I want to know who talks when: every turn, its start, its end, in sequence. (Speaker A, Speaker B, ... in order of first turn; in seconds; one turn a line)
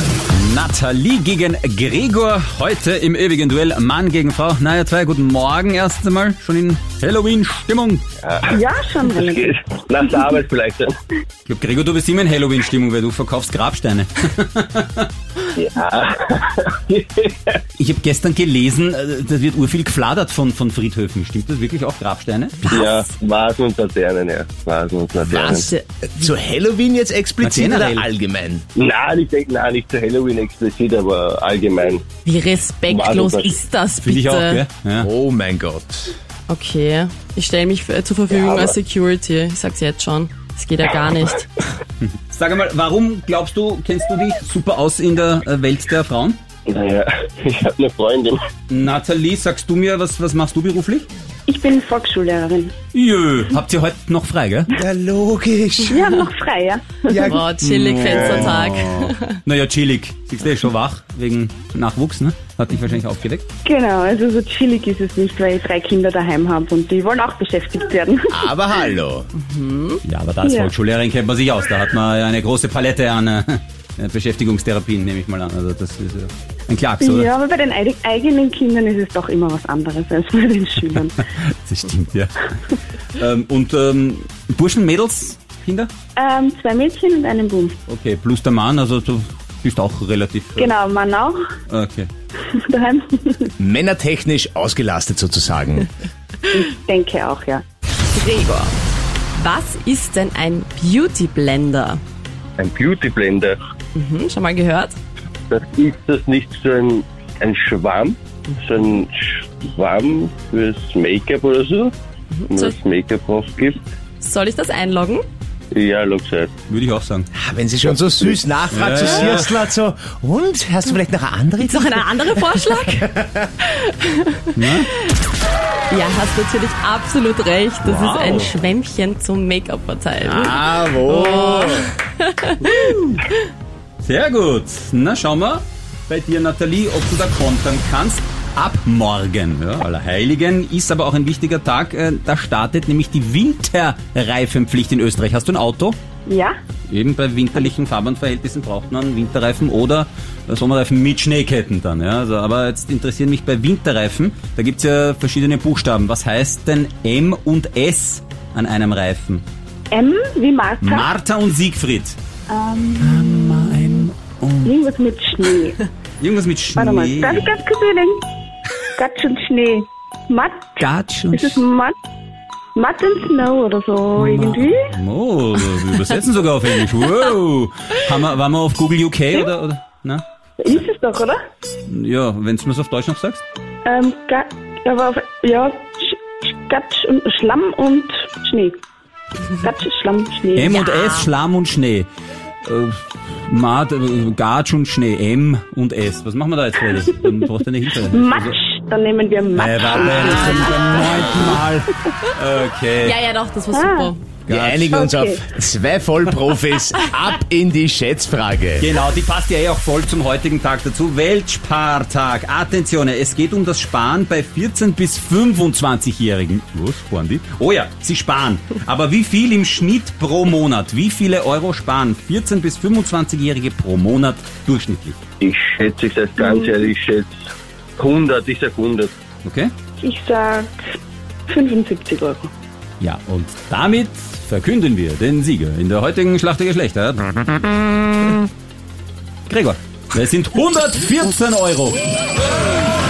Speaker A: 0.3-8.0
Speaker B: 8.2-8.5
Speaker C: 8.5-10.3
Speaker B: 9.1-10.9
Speaker A: 11.4-15.1
Speaker B: 15.5-17.6
Speaker A: 17.8-22.8
Speaker B: 22.7-25.7
Speaker D: 22.7-23.0
Speaker E: 25.2-28.6
Speaker D: 25.4-25.8
Speaker A: 27.4-28.1
Speaker B: 28.8-32.0
Speaker D: 32.2-34.6
Speaker B: 32.8-33.6
Speaker A: 34.0-35.1
Speaker E: 35.0-36.1
Speaker D: 36.5-41.5
Speaker B: 38.3-38.8
Speaker A: 42.0-46.4
Speaker B: 46.7-48.4
Speaker A: 48.7-51.1
Speaker C: 51.5-52.7
Speaker A: 52.9-54.7
Speaker E: 54.7-56.0
Speaker C: 55.9-57.4
Speaker E: 57.1-57.4
Speaker D: 57.2-59.3
Speaker A: 57.6-63.4
Speaker E: 58.0-58.4
Speaker C: 63.6-68.5
Speaker E: 68.3-69.3
Speaker D: 69.4-70.0
Speaker A: 70.0-77.3
Speaker C: 70.4-70.7
Speaker C: 77.0-81.2
Speaker A: 81.3-82.5
Speaker A: 83.1-85.9
Speaker C: 86.2-87.8
Speaker A: 87.9-90.8
Speaker C: 90.6-91.4
Speaker A: 91.7-92.1
Speaker C: 92.4-93.5
Speaker E: 93.6-95.9
Speaker C: 96.5-97.6
Speaker D: 98.1-98.7
Speaker D: 99.3-102.0
Speaker B: 102.6-103.5
Speaker D: 103.9-105.0
Speaker B: 105.5-111.9
Speaker D: 112.3-112.8
Speaker B: 112.5-113.8
Speaker D: 114.2-115.2
Speaker B: 115.7-116.5
Speaker A: 116.7-117.3
Speaker E: 117.3-123.5
Speaker A: 118.7-119.6
Speaker D: 121.6-123.1
Speaker D: 123.6-125.1
Speaker A: 124.5-124.9
Speaker D: 125.9-133.0
Speaker A: 127.8-128.5
Speaker E: 130.2-131.9
Speaker A: 132.6-133.2
Speaker A: 134.0-146.0
Speaker C: 146.3-146.5
Speaker A: 146.9-159.4
Speaker C: 159.9-161.1
Speaker A: 160.8-162.2
Speaker C: 162.5-163.6
Speaker A: 163.0-164.7
Speaker C: 164.6-165.8
Speaker A: 166.2-167.5
Speaker C: 166.8-168.2
Speaker C: 168.9-171.9
Speaker A: 170.8-171.6
Speaker C: 172.7-174.8
Speaker A: 174.2-180.2
Speaker C: 180.6-181.4
Speaker A: 181.9-183.4
Speaker C: 183.8-188.8
Speaker C: 189.5-190.8
Speaker A: 190.5-192.1
Speaker D: 190.7-191.3
Speaker A: 192.6-198.6
Speaker C: 198.1-201.6
Speaker A: 199.5-203.2
Speaker D: 203.0-204.3
Speaker C: 203.7-204.1
Speaker A: 204.5-204.9
Speaker E: 204.5-208.9
Speaker C: 204.9-205.5
Speaker A: 208.8-225.2
Speaker B: 225.4-227.3
Speaker C: 226.4-226.8
Speaker B: 228.0-229.1
Speaker A: 229.4-229.7
Speaker C: 230.0-230.7
Speaker C: 231.5-232.5
Speaker A: 233.0-238.4
Speaker A: 239.5-242.0